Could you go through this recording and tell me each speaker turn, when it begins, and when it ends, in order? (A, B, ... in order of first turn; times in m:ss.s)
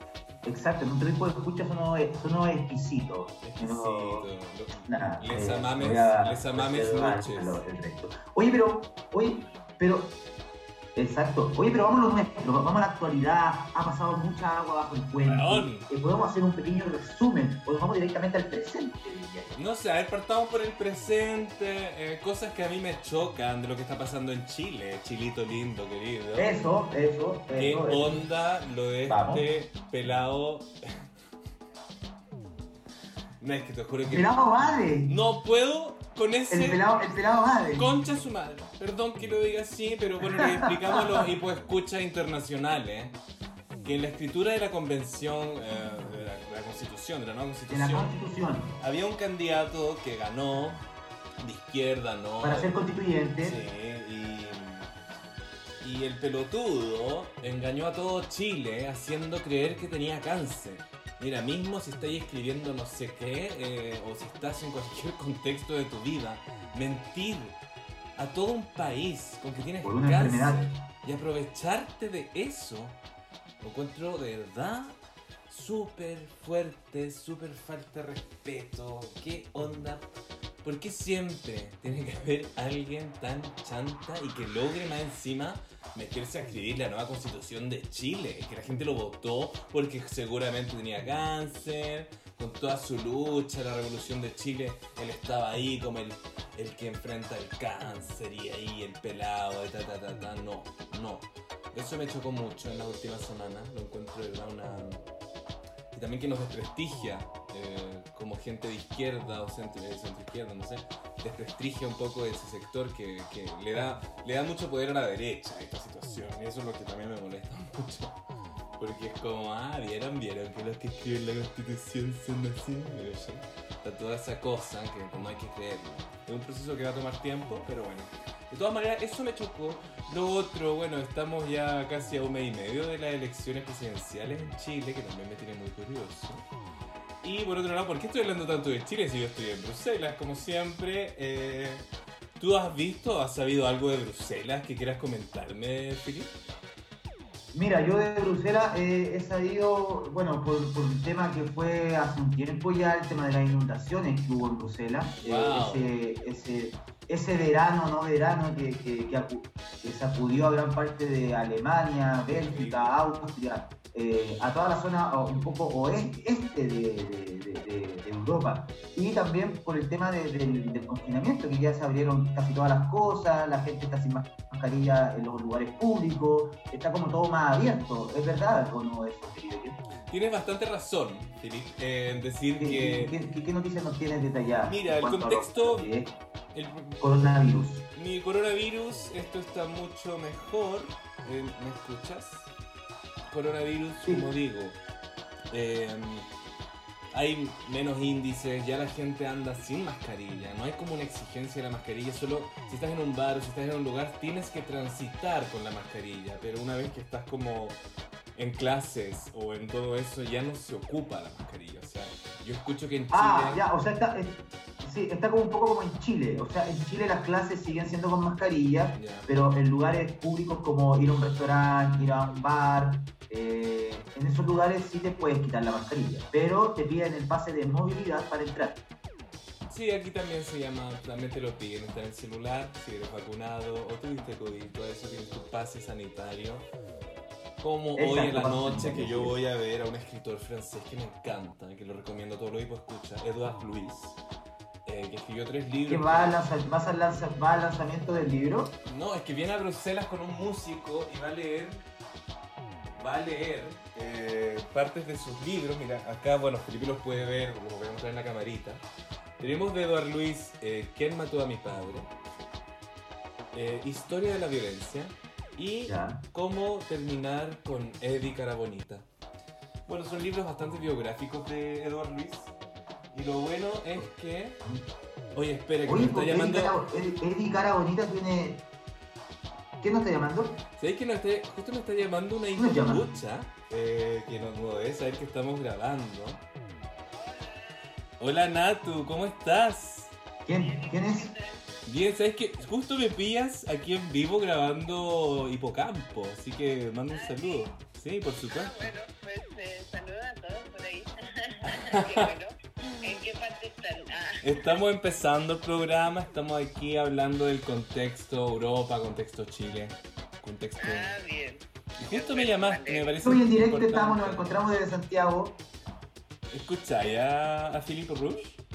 0:00.4-0:04.3 A
0:03.4-0:07.6 B
0:04.8-0:10.2 A
0:11.0-0:19.6 A
0:15.2-0:15.9 B
0:19.6-0:26.6 B
0:26.4-0:28.2 A
0:27.6-0:31.0 B
0:29.1-0:29.4 A
0:33.4-0:36.8 B
0:34.1-0:35.1 A
0:36.5-0:37.9 A
0:37.8-0:43.2 B
0:40.3-0:41.3 A
0:43.8-0:48.2 B
0:47.7-0:48.8 A
0:48.8-0:50.8 B
0:51.4-0:54.9 B
0:52.4-0:53.6 A
0:55.8-1:07.6 B
1:08.2-1:13.0 B
1:09.8-1:10.8 A
1:13.6-1:15.0 B
1:15.5-1:20.1 B
1:20.6-1:45.0 B
1:45.9-1:58.2 B
1:58.8-2:16.5 B
2:17.2-2:21.8 B
2:22.4-2:26.3 B
2:27.5-2:59.8 A
2:35.2-2:35.9 B
2:42.3-2:42.9 B
3:00.1-3:03.1 B
3:02.6-3:06.1 A
3:04.6-3:05.9 B
3:06.5-3:07.4 B
3:07.0-3:07.9 A
3:07.9-3:12.5 B
3:13.3-3:14.8 B
3:15.5-3:16.3 B
3:17.1-3:27.8 B
3:28.4-3:33.6 B
3:33.1-3:48.8 A
3:38.9-3:39.3 B
3:49.7-3:56.7 B
3:57.6-4:04.2 B
3:58.0-3:59.4 A
4:04.8-4:06.4 B
4:05.9-4:08.7 A
4:08.8-4:11.8 B
4:13.0-4:18.8 B
4:19.4-4:22.1 B
4:23.5-4:29.1 B
4:25.8-4:26.2 A
4:29.9-4:32.6 B
4:33.1-4:34.6 B
4:35.3-4:36.8 B
4:35.8-4:38.6 A
4:39.8-4:40.6 A
4:40.8-4:46.4 B
4:42.6-4:43.1 A
4:47.1-4:47.9 C
4:48.2-4:50.1 B
4:50.4-4:51.3 A
4:50.5-4:51.6 C
4:51.8-4:58.9 B
4:57.1-4:57.7 C
4:58.5-5:04.8 C
5:01.6-5:02.3 B
5:04.4-5:11.1 B
5:10.8-5:13.2 C
5:12.0-5:14.6 B
5:13.2-5:15.6 A
5:16.5-5:18.6 B